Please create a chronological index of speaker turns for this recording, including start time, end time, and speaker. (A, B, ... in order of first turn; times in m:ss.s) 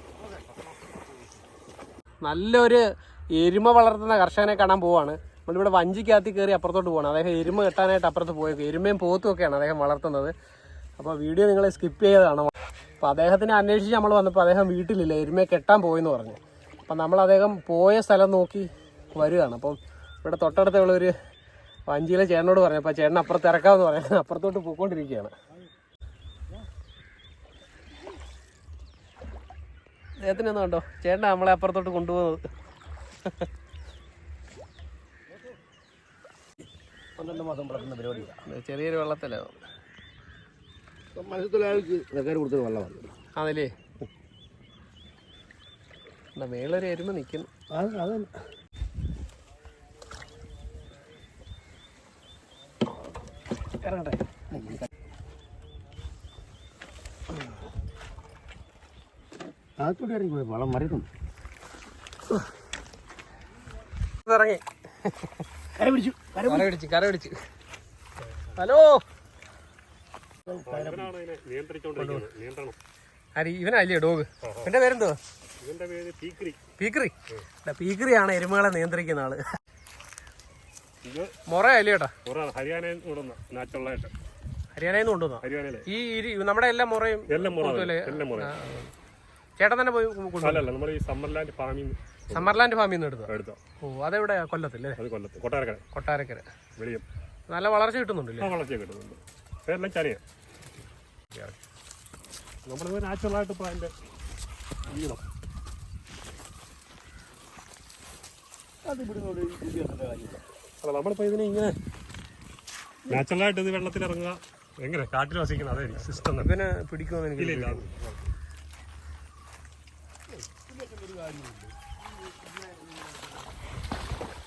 0:02.2-0:02.8 A
0:03.4-0:10.3 A
0:11.0-0:21.1 A
0:21.9-0:25.3 A
0:30.2-0:32.5 A
0:37.2-0:38.4 B
0:38.4-0:39.6 A
0:41.2-0:43.0 B
0:43.4-0:43.7 A
0:46.4-0:47.5 A
0:47.7-0:48.3 B
0:53.8-0:54.8 B
0:59.8-1:01.1 B
1:04.3-1:05.4 A
1:05.8-1:06.7 B
1:06.4-1:07.3 A
1:08.6-1:09.0 A
1:10.5-1:11.1 B
1:10.6-1:12.8 C
1:12.0-1:12.3 A
1:13.4-1:15.2 A
1:14.4-1:14.7 C
1:15.6-1:16.6 C
1:16.8-1:17.1 A
1:17.6-1:19.4 A
1:21.0-1:21.3 C
1:21.5-1:22.1 A
1:22.2-1:24.1 C
1:24.8-1:28.9 A
1:25.4-1:25.9 C
1:27.3-1:28.5 C
1:29.6-1:30.7 A
1:30.4-1:32.6 C
1:32.3-1:35.0 A
1:33.3-1:33.6 C
1:35.0-1:35.8 C
1:35.9-1:36.4 A
1:36.8-1:37.0 C
1:37.5-1:38.5 A
1:38.4-1:40.2 C
1:42.7-1:43.9 C
1:44.9-1:45.2 C
1:48.8-1:50.4 B
1:50.8-1:51.8 C
1:53.1-1:56.5 C
1:56.2-1:57.9 A
1:57.4-1:58.2 C
2:01.0-2:01.5 B